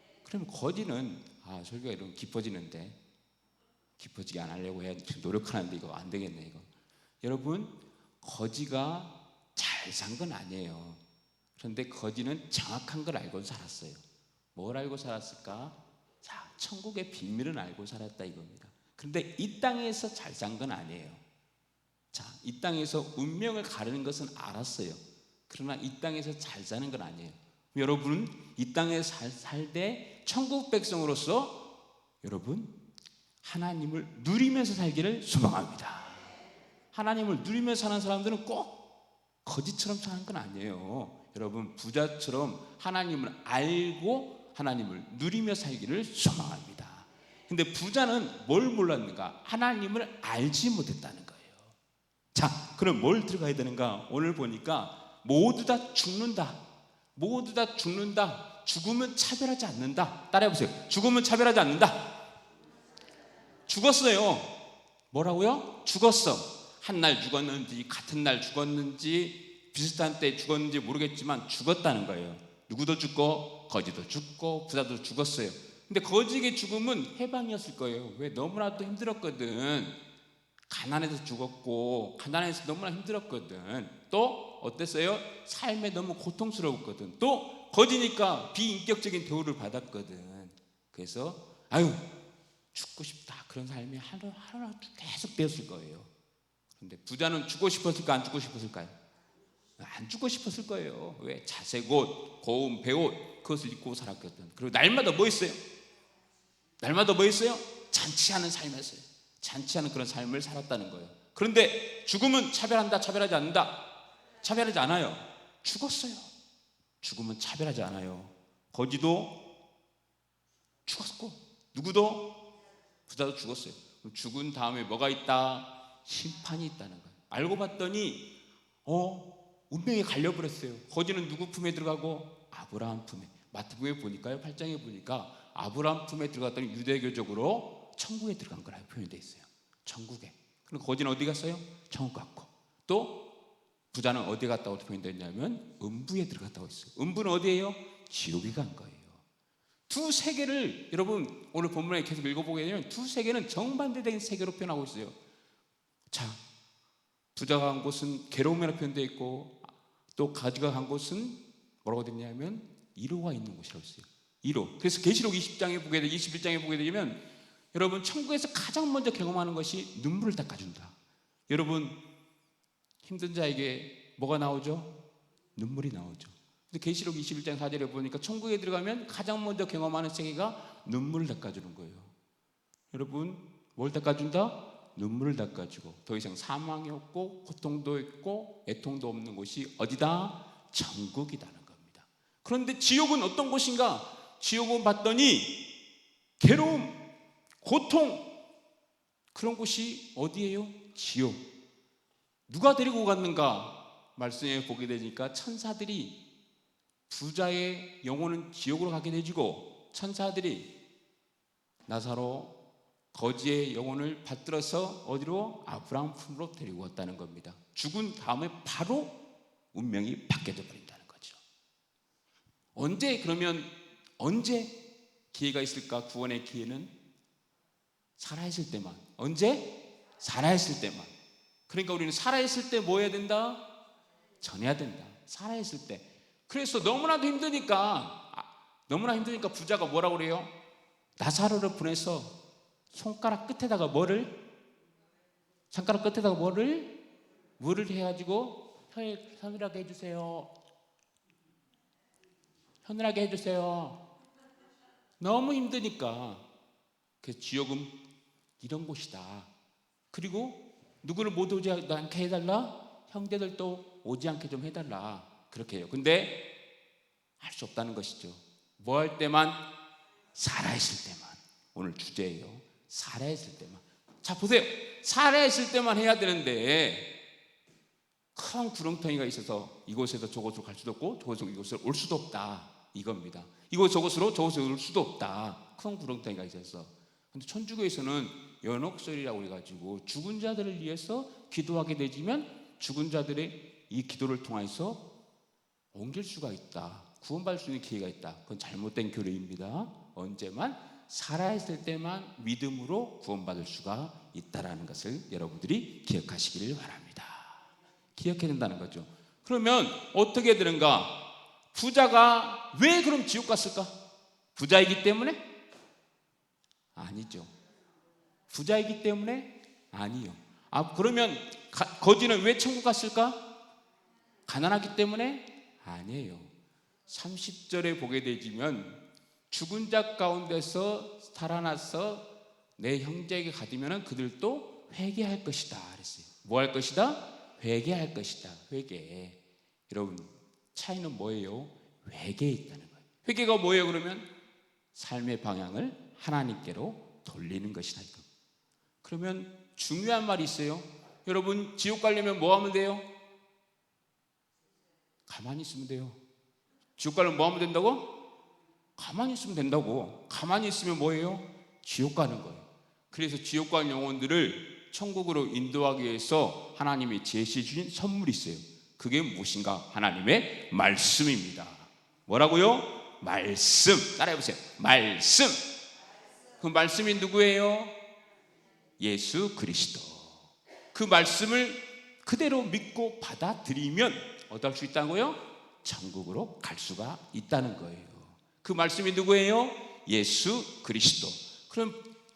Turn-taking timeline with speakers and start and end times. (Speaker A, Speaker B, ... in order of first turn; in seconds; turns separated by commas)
Speaker A: 0.2-3.0, Speaker A: 4.0-6.7, Speaker A: 7.2-11.0, Speaker A: 11.6-14.0, Speaker A: 14.5-21.2, Speaker A: 22.1-31.6, Speaker A: 32.2-32.7, Speaker A: 33.4-36.3, Speaker A: 36.9-38.7, Speaker A: 39.4-51.7, Speaker A: 52.3-56.6, Speaker A: 57.1-62.1, Speaker A: 63.7-64.5, Speaker A: 65.1-79.9, Speaker A: 80.7-92.0, Speaker A: 92.7-96.1, Speaker A: 96.8-98.9, Speaker A: 99.8-105.6, Speaker A: 106.8-113.8, Speaker A: 114.4-116.3, Speaker A: 117.0-119.3, Speaker A: 120.8-122.3, Speaker A: 123.1-128.2, Speaker A: 128.8-143.2, Speaker A: 143.9-149.2, Speaker A: 149.9-155.2, Speaker A: 156.1-156.4, Speaker A: 157.3-167.2, Speaker A: 167.7-170.9, Speaker A: 171.5-172.0, Speaker A: 173.0-174.9, Speaker A: 175.6-182.1, Speaker A: 182.9-195.5, Speaker A: 196.4-197.0, Speaker A: 197.6-198.2, Speaker A: 199.3-201.4, Speaker A: 202.5-206.1, Speaker A: 207.1-210.7, Speaker A: 211.9-212.6, Speaker A: 213.1-219.2, Speaker A: 219.7-221.4, Speaker A: 222.7-224.7, Speaker A: 225.3-226.9, Speaker A: 228.2-231.1, Speaker A: 231.7-233.6, Speaker A: 234.4-240.5, Speaker A: 241.2-242.3, Speaker A: 242.9-244.3, Speaker A: 245.7-246.9, Speaker A: 247.6-250.5, Speaker A: 252.8-254.0, Speaker A: 255.2-256.4, Speaker A: 257.2-257.9, Speaker A: 258.6-259.5, Speaker A: 260.1-266.4, Speaker A: 267.4-269.6, Speaker A: 270.3-277.1, Speaker A: 278.3-295.0, Speaker A: 295.9-307.6, Speaker A: 308.1-311.1, Speaker A: 311.7-313.9, Speaker A: 314.6-315.4, Speaker A: 316.9-317.5, Speaker A: 318.5-323.4, Speaker A: 324.5-326.5, Speaker A: 327.1-332.2, Speaker A: 332.8-344.3, Speaker A: 344.9-348.2, Speaker A: 349.0-353.1, Speaker A: 355.3-356.2, Speaker A: 357.0-358.1, Speaker A: 359.0-375.6, Speaker A: 376.6-377.9, Speaker A: 379.0-392.0